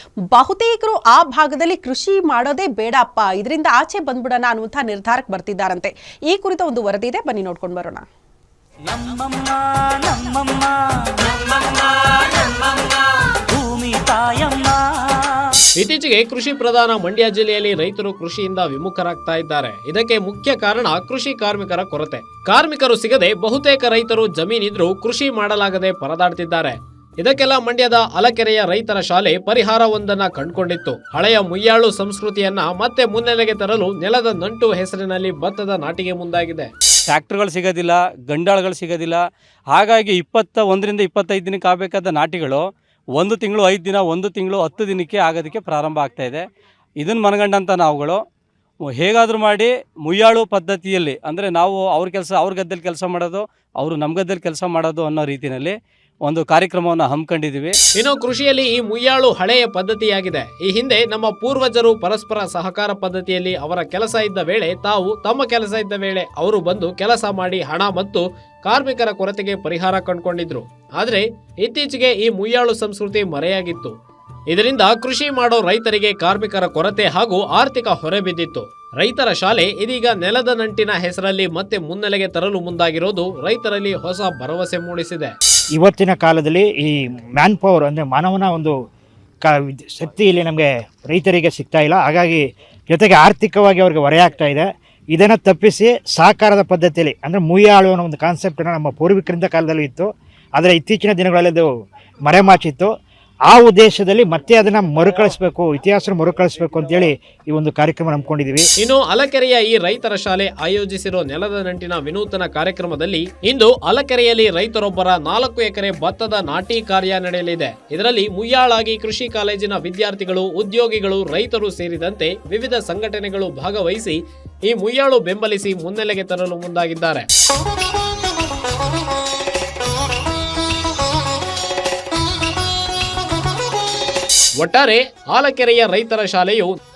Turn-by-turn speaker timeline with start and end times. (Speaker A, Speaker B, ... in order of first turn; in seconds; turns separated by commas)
Speaker A: 0.3-8.0, Speaker B: 8.9-15.6, Speaker C: 15.8-36.7, Speaker D: 37.1-39.2, Speaker D: 39.7-46.4, Speaker D: 47.0-48.2, Speaker D: 48.9-57.8, Speaker C: 58.0-73.9, Speaker C: 74.5-85.3, Speaker E: 85.8-88.8, Speaker E: 89.5-101.7, Speaker E: 102.2-102.9, Speaker E: 103.5-108.7, Speaker C: 108.8-127.3, Speaker C: 134.6-136.8